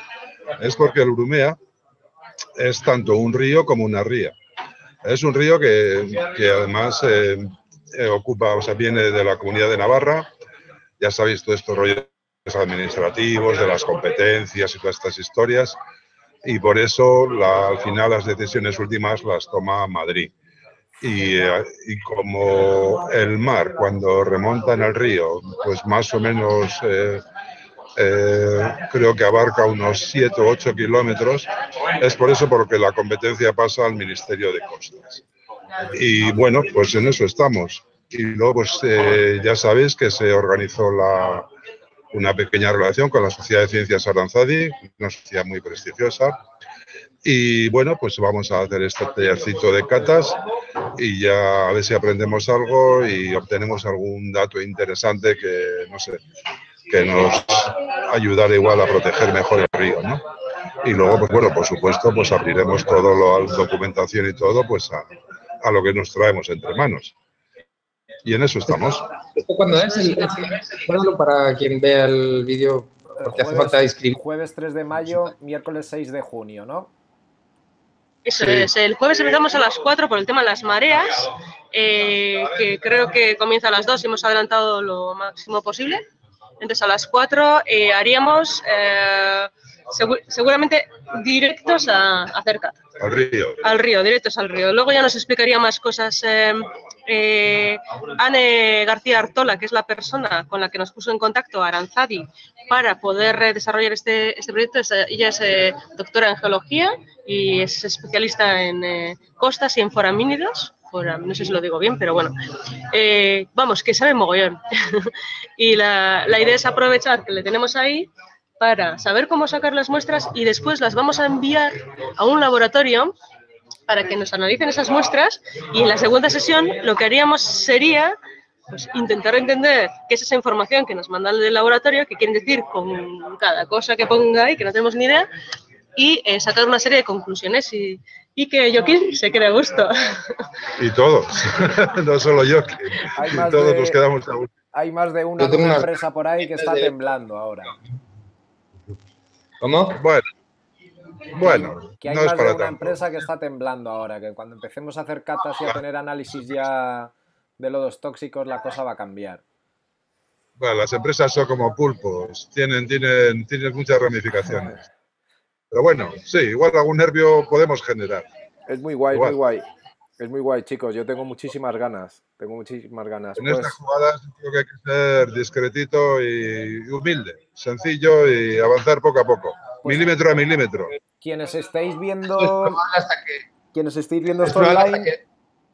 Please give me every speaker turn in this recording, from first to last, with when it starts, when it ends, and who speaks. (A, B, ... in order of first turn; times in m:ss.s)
0:00.6-0:01.6 A
0:02.6-0:04.4 A
0:05.0-0:10.3 A
0:11.0-0:15.8 A
0:16.4-0:20.3 A
0:21.0-0:27.2 A
0:28.0-0:35.2 A
0:35.9-0:41.5 A
0:42.1-0:46.4 A
0:47.2-0:50.4 A
0:51.0-0:56.2 A
0:56.9-1:00.2 A
1:00.8-1:05.1 A
1:05.6-1:07.1 A
1:08.2-1:09.0 A
1:09.4-1:14.2 B
1:13.2-1:16.9 C
1:18.2-1:26.0 D
1:26.6-1:32.8 D
1:33.0-1:33.6 A
1:33.6-1:52.4 D
1:52.9-2:03.2 D
2:03.9-2:08.2 D
2:08.7-2:15.3 D
2:16.0-2:20.4 D
2:20.8-2:24.5 A
2:23.2-2:24.0 C
2:24.7-2:27.8 C
2:25.4-2:25.9 B
2:26.4-2:26.9 B
2:29.6-2:30.0 B
2:30.0-2:30.3 A
2:31.3-2:33.0 A
2:32.0-2:39.4 C
2:40.6-2:44.8 A
2:45.7-2:48.3 A
2:48.7-2:49.7 C
2:50.2-2:53.8 C
2:53.4-3:00.9 A
3:01.2-3:02.8 C
3:02.3-3:03.4 B
3:03.7-3:05.1 C
3:04.4-3:05.2 B